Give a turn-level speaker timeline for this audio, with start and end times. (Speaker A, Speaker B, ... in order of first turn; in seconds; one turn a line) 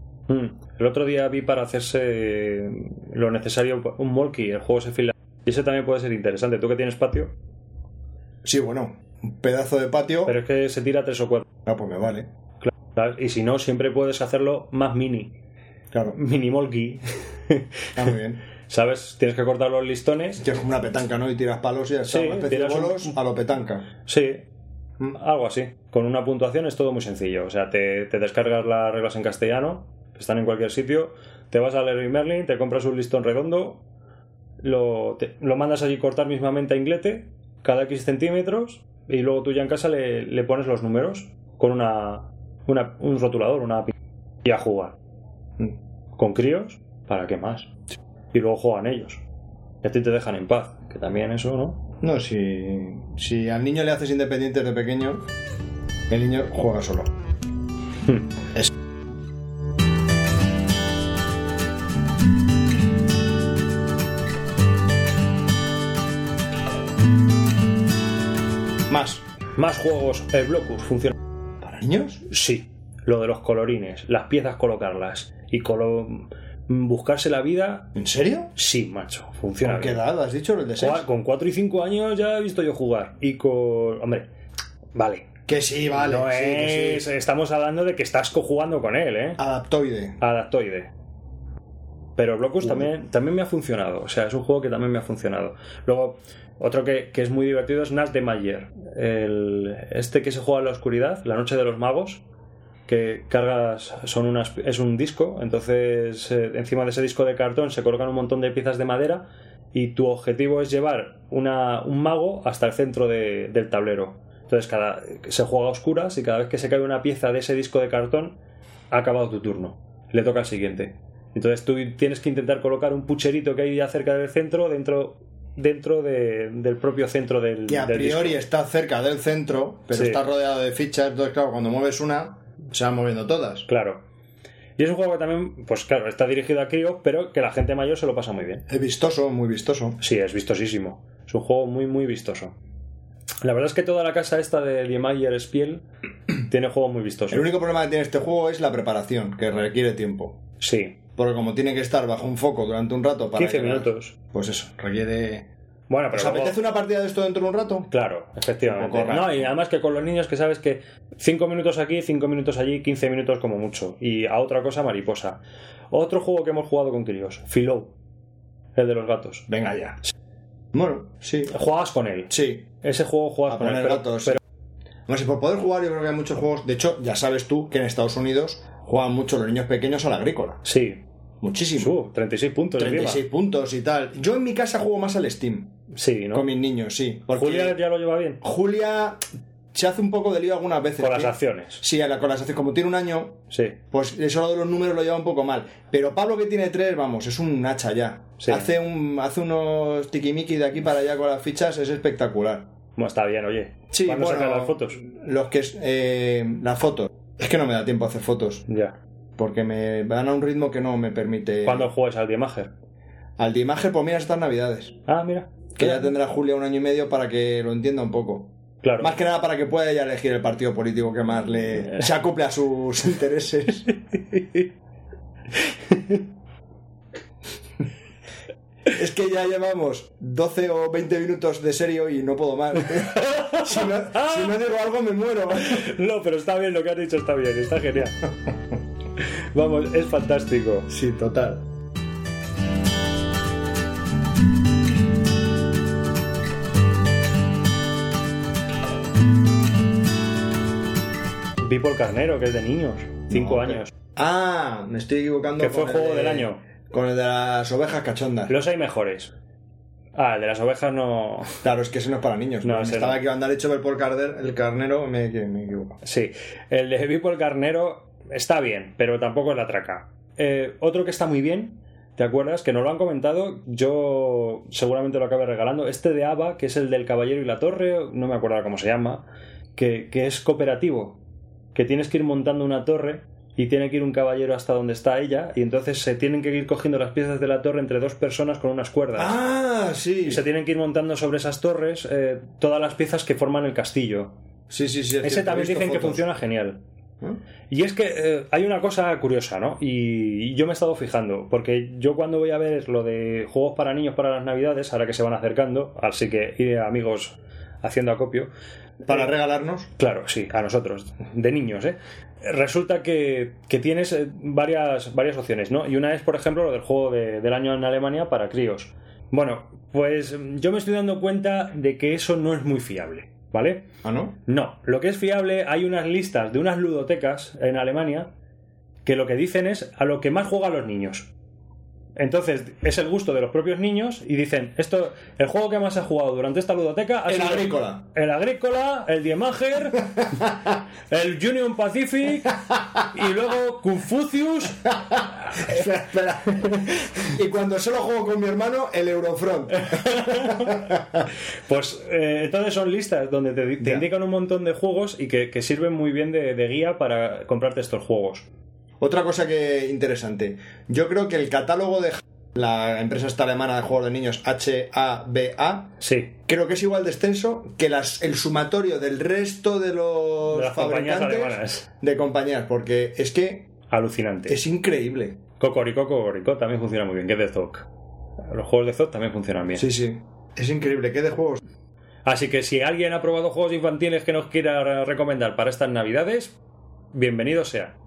Speaker A: 0.3-7.3
Speaker B: 8.4-10.3
Speaker A: 10.2-11.5
Speaker B: 11.7-12.3
Speaker A: 12.6-15.3
Speaker B: 15.9-16.2
Speaker A: 16.1-17.9
Speaker B: 17.9-18.4
Speaker A: 18.6-20.4
Speaker B: 20.4-23.9
Speaker A: 22.1-23.2
Speaker A: 24.1-24.4
Speaker A: 25.1-33.8
Speaker A: 34.6-45.0
Speaker A: 46.2-47.7
Speaker A: 48.3-49.2
Speaker A: 49.8-51.9
Speaker B: 52.0-55.2
Speaker B: 56.1-57.1
Speaker B: 68.9-69.2
Speaker A: 69.5-71.1
Speaker B: 71.6-72.2
Speaker A: 72.3-77.9
Speaker B: 77.9-78.5
Speaker A: 78.5-80.0
Speaker B: 79.6-81.0
Speaker A: 80.8-84.3
Speaker A: 84.9-85.3
Speaker B: 85.5-87.0
Speaker A: 85.9-89.4
Speaker B: 89.4-90.2
Speaker A: 90.2-90.9
Speaker A: 92.2-102.2
Speaker A: 102.9-118.4
Speaker A: 118.9-128.4
Speaker B: 127.7-133.7
Speaker A: 129.9-130.2
Speaker A: 133.7-134.0
Speaker A: 134.8-138.7
Speaker B: 138.7-140.0
Speaker A: 140.0-142.5
Speaker A: 143.4-145.8
Speaker A: 146.4-147.5
Speaker B: 147.3-150.4
Speaker A: 150.6-151.0
Speaker B: 151.2-155.5
Speaker A: 153.3-154.1
Speaker A: 155.9-156.6
Speaker B: 156.1-157.9
Speaker A: 157.9-165.4
Speaker B: 158.6-159.5
Speaker A: 165.9-167.9
Speaker A: 168.8-169.5
Speaker B: 169.5-170.0
Speaker B: 170.7-171.5
Speaker A: 171.5-174.4
Speaker B: 172.3-172.7
Speaker B: 173.5-174.4
Speaker B: 175.1-180.6
Speaker A: 180.6-181.0
Speaker B: 181.4-181.9
Speaker A: 181.8-183.2
Speaker B: 182.8-185.7
Speaker A: 185.9-186.5
Speaker B: 186.3-187.8
Speaker A: 187.3-188.4
Speaker B: 188.4-189.2
Speaker B: 189.7-202.7
Speaker A: 191.0-191.8
Speaker A: 193.5-193.8
Speaker A: 198.4-198.7
Speaker A: 203.0-205.0
Speaker B: 203.9-208.7
Speaker A: 208.7-209.0
Speaker B: 209.4-211.9
Speaker A: 211.6-212.7
Speaker B: 213.4-215.0
Speaker A: 215.1-216.1
Speaker B: 215.8-224.0
Speaker A: 218.8-219.2
Speaker B: 228.8-235.8
Speaker A: 233.0-234.5
Speaker A: 235.6-238.2
Speaker A: 239.2-240.9
Speaker B: 240.9-241.7
Speaker A: 251.6-253.9
Speaker B: 253.3-258.5
Speaker A: 255.6-256.6
Speaker A: 258.5-259.3
Speaker A: 260.1-261.6
Speaker B: 261.6-266.0
Speaker A: 262.6-263.2
Speaker A: 266.0-281.2
Speaker A: 281.7-289.4
Speaker B: 289.2-290.4
Speaker A: 290.2-294.3
Speaker B: 294.7-296.2
Speaker A: 295.2-296.8
Speaker A: 297.7-308.5
Speaker B: 309.0-309.9
Speaker A: 310.0-323.9
Speaker B: 324.0-324.4
Speaker A: 324.4-328.3
Speaker A: 329.0-331.3
Speaker A: 332.2-344.9
Speaker B: 337.3-338.0
Speaker B: 340.2-340.6
Speaker B: 344.9-351.3
Speaker A: 349.8-350.9
Speaker A: 351.7-358.5
Speaker B: 353.8-354.1
Speaker B: 359.0-365.9
Speaker A: 366.0-366.3
Speaker B: 366.5-373.7
Speaker A: 370.5-371.9
Speaker A: 373.9-374.6
Speaker B: 374.5-375.4
Speaker A: 375.6-377.9
Speaker A: 378.5-379.9
Speaker B: 379.7-381.6
Speaker A: 382.2-386.6
Speaker A: 387.1-387.9